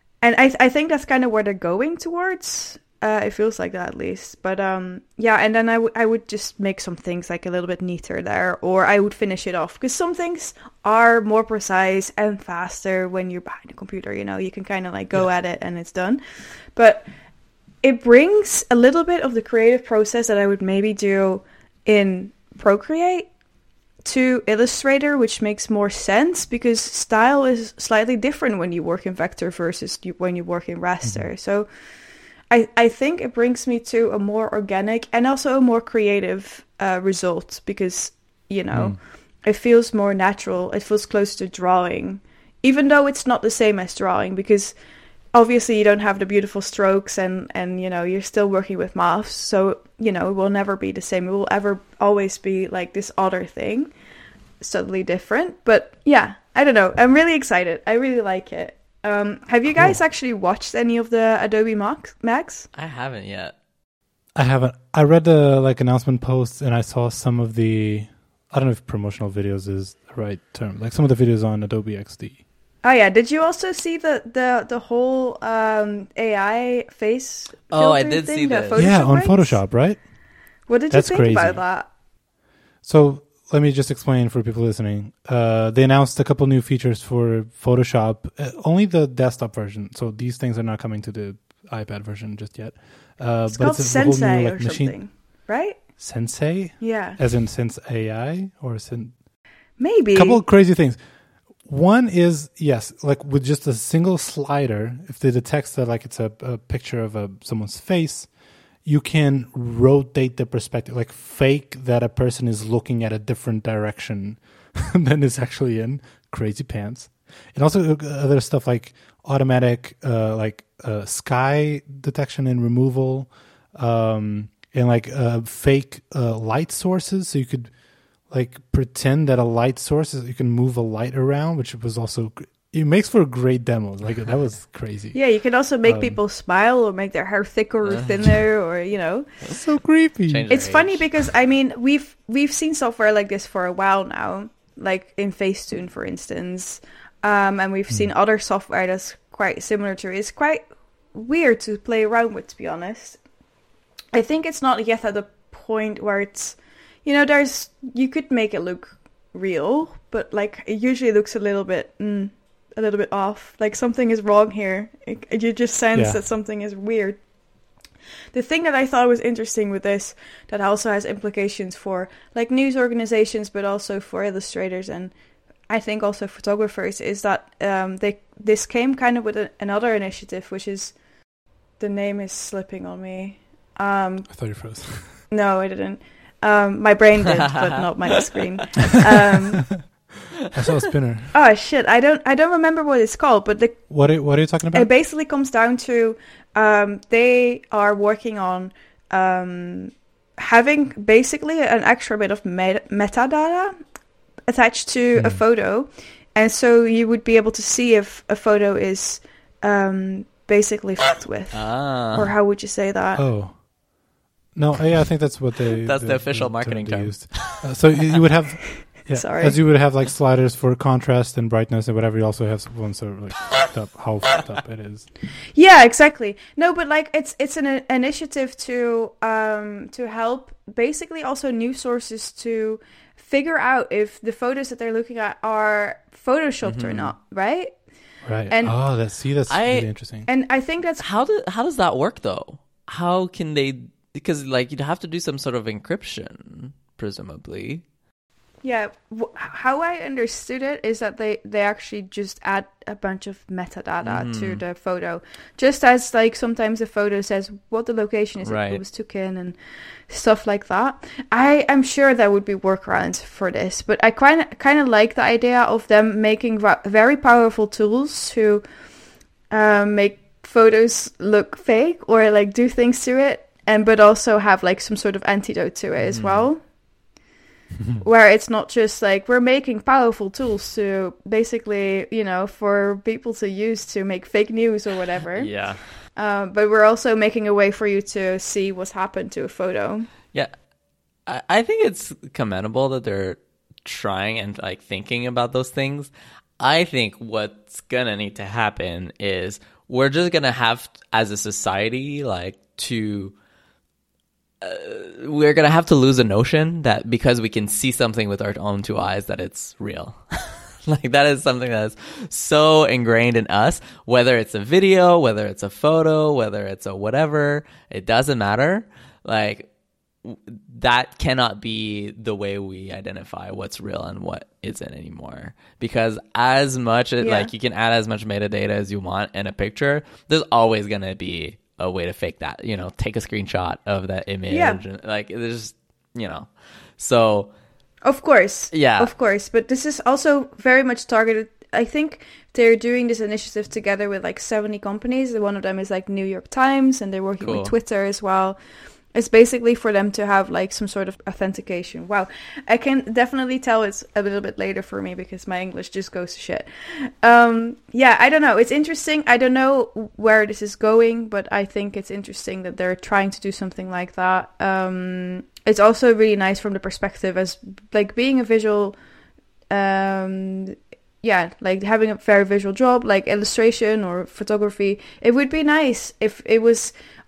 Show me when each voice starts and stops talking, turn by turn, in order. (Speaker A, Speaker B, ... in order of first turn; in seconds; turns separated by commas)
Speaker A: 0.2-16.2, Speaker A: 16.7-17.1, Speaker A: 17.8-23.3, Speaker A: 24.0-31.7, Speaker A: 32.5-44.7, Speaker B: 38.7-39.0, Speaker A: 45.3-53.9, Speaker A: 54.6-62.7, Speaker C: 62.7-63.5, Speaker B: 64.3-72.4, Speaker A: 72.8-79.6, Speaker C: 77.7-78.8, Speaker B: 78.7-80.0, Speaker A: 80.7-81.9, Speaker B: 80.9-81.6, Speaker B: 82.8-95.0, Speaker A: 93.5-95.8, Speaker B: 96.0-99.1, Speaker A: 96.8-97.2, Speaker A: 99.8-100.4, Speaker B: 100.1-101.0, Speaker B: 101.6-108.3, Speaker B: 108.8-127.7, Speaker B: 128.3-135.2, Speaker A: 135.1-139.3, Speaker B: 135.8-136.2, Speaker C: 137.8-138.1, Speaker B: 139.5-140.5, Speaker C: 140.3-141.0, Speaker A: 140.5-153.2, Speaker A: 154.1-167.2, Speaker B: 165.9-166.2, Speaker A: 168.3-175.1, Speaker A: 175.7-180.9, Speaker A: 181.8-184.3, Speaker B: 184.3-185.2, Speaker A: 185.3-189.8, Speaker C: 187.5-187.8, Speaker B: 190.5-191.3, Speaker A: 191.3-193.8, Speaker B: 193.9-194.9, Speaker A: 194.7-203.7, Speaker A: 204.5-213.2, Speaker B: 205.1-205.4, Speaker C: 211.5-212.3, Speaker B: 213.2-213.6, Speaker B: 214.5-225.1, Speaker C: 215.8-217.7, Speaker A: 219.0-219.6, Speaker A: 225.5-237.7, Speaker C: 236.6-237.1, Speaker B: 238.2-240.3, Speaker A: 238.5-238.8, Speaker C: 239.5-239.9, Speaker A: 240.2-241.0, Speaker C: 241.0-247.8, Speaker A: 248.6-259.6, Speaker C: 254.0-254.6, Speaker C: 258.4-258.8, Speaker A: 260.1-268.6, Speaker A: 269.5-276.6, Speaker C: 276.1-276.5, Speaker A: 278.0-290.1, Speaker C: 285.4-285.9, Speaker C: 291.3-303.3, Speaker C: 304.6-319.7, Speaker C: 320.2-337.5, Speaker A: 327.2-327.5, Speaker A: 334.5-334.8, Speaker A: 338.0-348.6, Speaker C: 338.7-339.1, Speaker C: 347.4-347.7, Speaker A: 349.1-369.0, Speaker A: 369.7-376.9